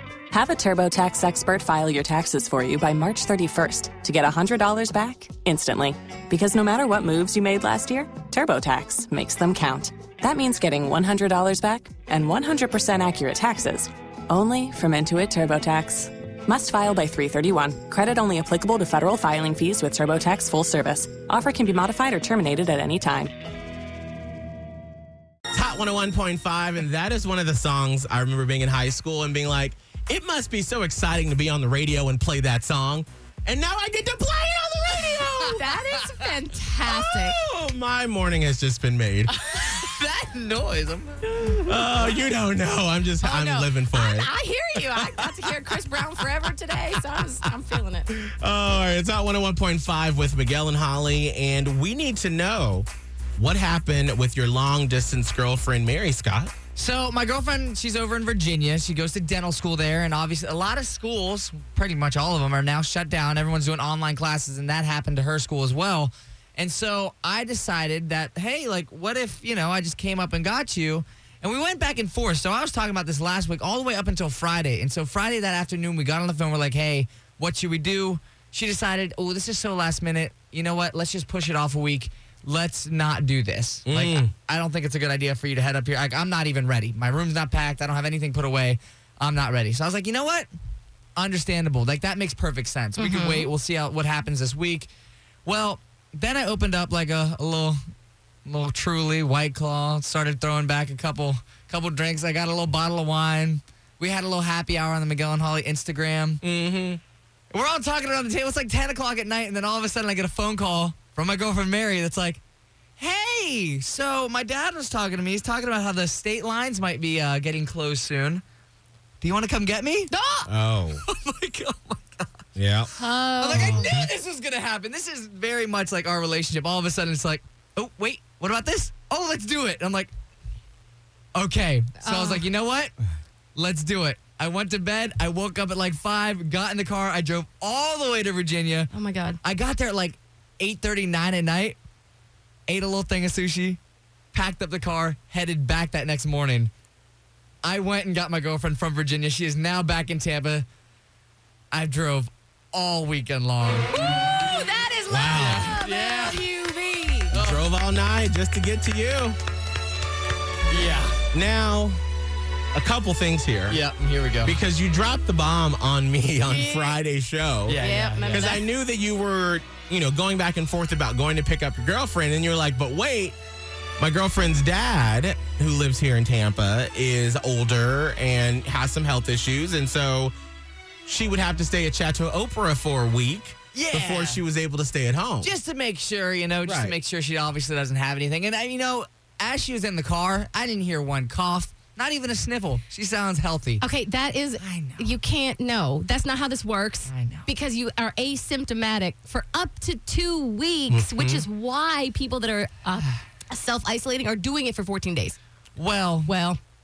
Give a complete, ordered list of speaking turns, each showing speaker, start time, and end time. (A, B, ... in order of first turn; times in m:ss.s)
0:00.3-0:23.3 A
0:25.5-0:35.6 B
0:35.4-0:37.4 C
0:36.8-0:39.3 B
0:39.4-0:41.3 D
0:39.5-0:39.8 C
0:41.4-0:44.3 B
0:43.2-0:48.1 C
0:45.0-0:45.8 B
0:48.1-0:56.5 B
0:56.8-1:30.5 D
1:23.9-1:24.3 B
1:31.2-1:34.9 D
1:33.0-1:33.5 C
1:35.4-1:37.8 D
1:38.4-1:46.4 D
1:46.4-1:47.0 B
1:47.5-1:52.4 D
1:53.0-1:58.4 D
1:59.2-2:00.1 D
2:00.1-2:00.5 C
2:00.5-2:01.0 B
2:01.0-2:02.4 D
2:02.6-2:02.9 B
2:03.0-2:04.0 C
2:03.4-2:10.1 D
2:03.5-2:04.1 B
2:11.4-2:12.9 D
2:12.0-2:12.4 C
2:13.6-2:18.9 D
2:18.9-2:19.4 C
2:19.4-2:21.8 D
2:22.7-2:23.8 D
2:24.3-2:26.7 D
2:27.6-2:30.7 D
2:31.7-2:33.9 D
2:34.4-2:37.4 C
2:35.1-2:35.7 B
2:35.4-2:36.4 D
2:37.3-2:39.4 B
2:37.3-2:37.6 D
2:40.7-2:41.2 D
2:41.3-2:42.0 B
2:42.7-2:43.8 B
2:43.7-2:44.6 D
2:44.4-2:53.4 B
2:46.5-2:47.0 C
2:47.7-2:48.6 D
2:47.8-2:48.6 C
2:54.0-3:00.4 B
3:01.1-3:05.5 B
3:03.7-3:04.4 D
3:05.4-3:13.8 D
3:06.6-3:07.0 B
3:13.8-3:25.4 C
3:14.6-3:15.2 D
3:17.1-3:17.5 D
3:20.9-3:21.4 B
3:25.8-3:26.3 D
3:26.3-3:26.6 C